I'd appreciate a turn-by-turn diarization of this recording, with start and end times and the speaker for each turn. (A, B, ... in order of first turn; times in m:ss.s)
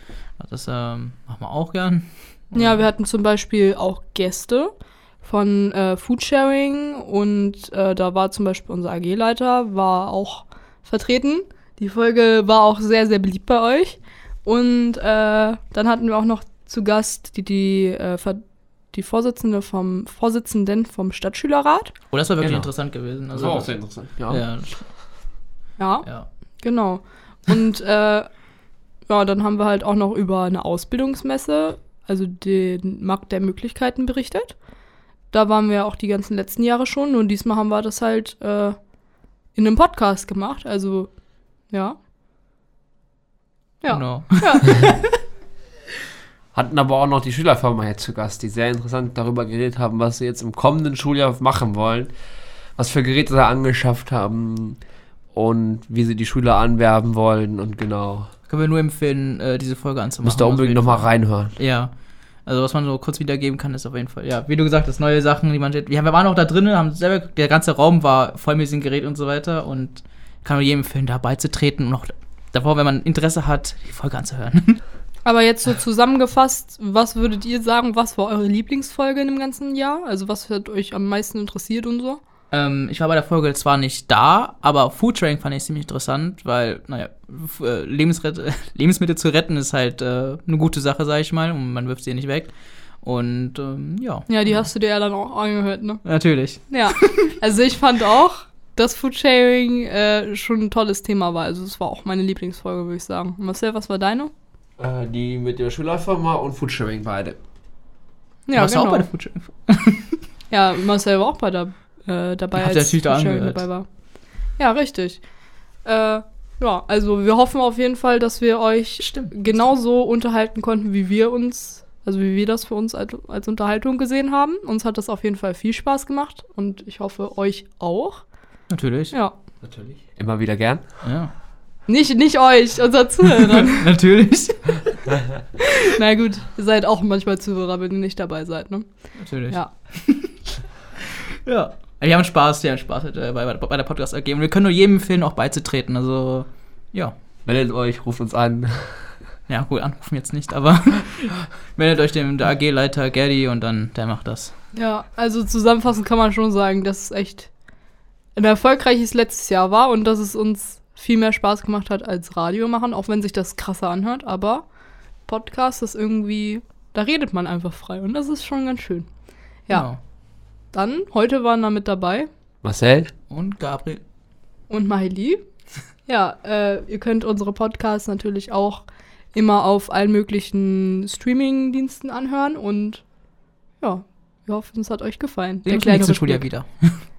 0:00.4-0:02.8 A
0:02.5-0:18.4 B
0:18.9-0:21.9 B
0:22.1-0:23.7 A
0:22.4-0:22.7 C
0:23.3-0:24.4 C
0:24.3-0:24.9 A
0:25.8-0:26.1 B
0:26.6-0:28.3 B
0:29.1-0:34.6 B
0:35.3-0:38.8 B
0:39.5-0:41.1 B
0:41.7-0:42.0 B
0:43.8-0:45.2 B
0:43.9-0:45.0 A
0:46.5-0:52.1 C
0:52.8-0:54.8 C
0:55.3-0:58.3 C
0:58.5-1:01.9 A
1:00.2-1:01.6 C
1:02.4-1:14.8 A
1:15.2-1:22.2 B
1:22.5-1:34.7 A
1:34.3-1:36.0 B
1:36.0-1:37.4 A
1:36.6-1:44.3 B
1:44.8-1:47.4 C
1:48.5-1:49.1 B
1:48.5-1:50.2 A
1:50.5-1:53.8 B
1:52.6-1:53.6 A
1:54.6-1:55.2 B
1:55.8-2:08.2 B
1:59.0-1:59.6 A
2:08.7-2:09.1 A
2:09.6-2:10.8 C
2:11.0-2:11.3 A
2:11.9-2:13.9 B
2:13.3-2:15.2 A
2:15.6-2:18.8 B
2:19.2-2:20.4 A
2:21.0-2:27.1 A
2:27.4-2:29.1 C
2:29.5-2:34.5 A
2:34.7-2:37.5 B
2:38.4-2:44.6 B
2:45.3-2:49.1 B
2:49.7-2:50.0 A
2:50.7-2:52.3 B
2:52.6-2:53.1 C
2:53.3-2:54.0 A
2:54.7-2:55.4 B
2:56.1-3:03.0 B
3:03.8-3:06.4 B
3:05.6-3:07.0 A